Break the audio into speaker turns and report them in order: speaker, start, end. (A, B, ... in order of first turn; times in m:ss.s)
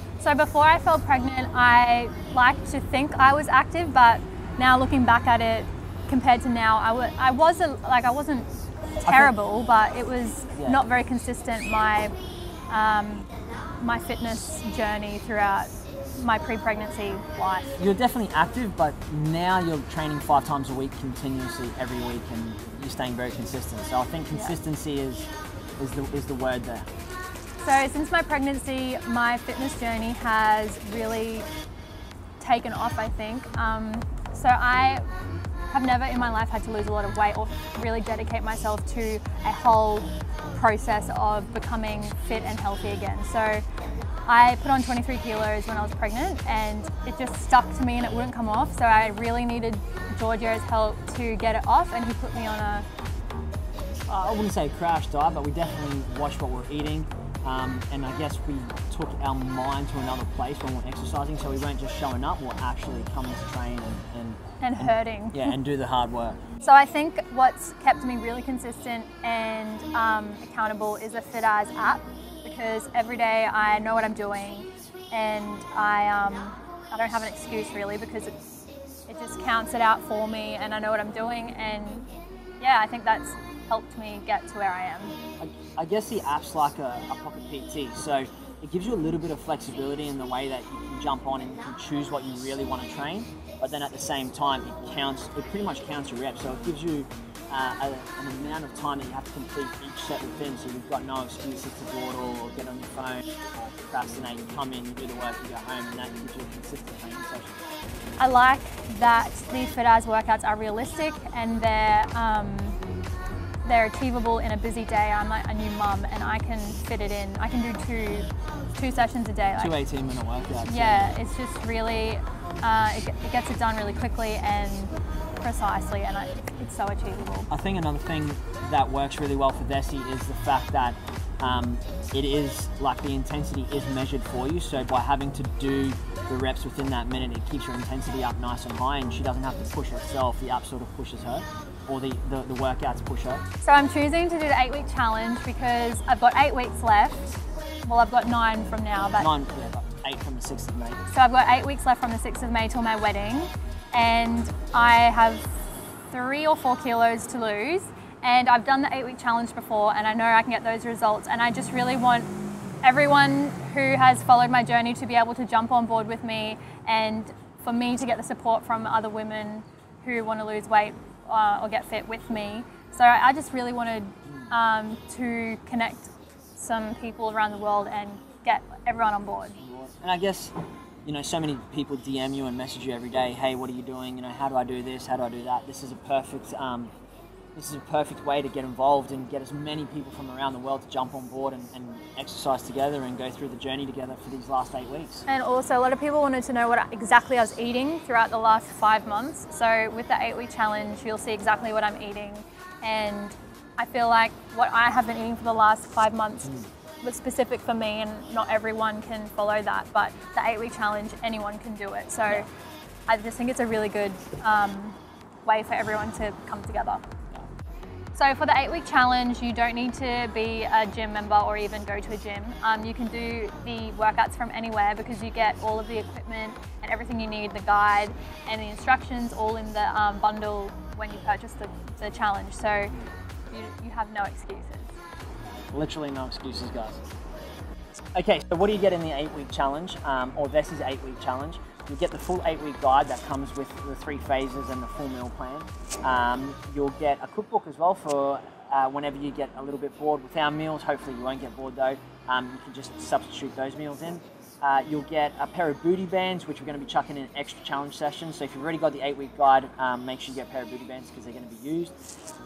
0:00.2-0:12.1 A
0:09.1-0:09.3 B
0:10.6-0:10.8 B
0:12.7-0:17.8 A
0:17.8-0:26.9 B
0:27.6-0:31.5 A
0:32.4-0:35.0 A
0:35.7-0:43.6 A
0:44.3-0:52.8 A
0:54.1-1:06.4 B
1:04.6-1:05.5 A
1:06.6-1:18.3 A
1:19.1-1:22.1 A
1:22.6-1:25.2 A
1:25.4-1:47.6 B
1:48.2-1:52.8 A
1:53.6-1:59.8 A
1:59.6-2:01.2 B
2:00.6-2:07.5 A
2:07.5-2:23.4 B
2:23.6-2:29.3 A
2:29.1-2:31.0 B
2:31.1-2:42.3 A
2:42.8-2:59.6 A
2:59.6-3:00.5 B
3:01.0-3:06.9 B
3:07.6-3:15.2 B
3:15.3-3:32.5 A
3:33.1-3:37.0 A
3:38.1-3:53.0 A
3:53.5-3:54.9 A
3:55.7-3:57.0 B
3:58.2-4:21.9 B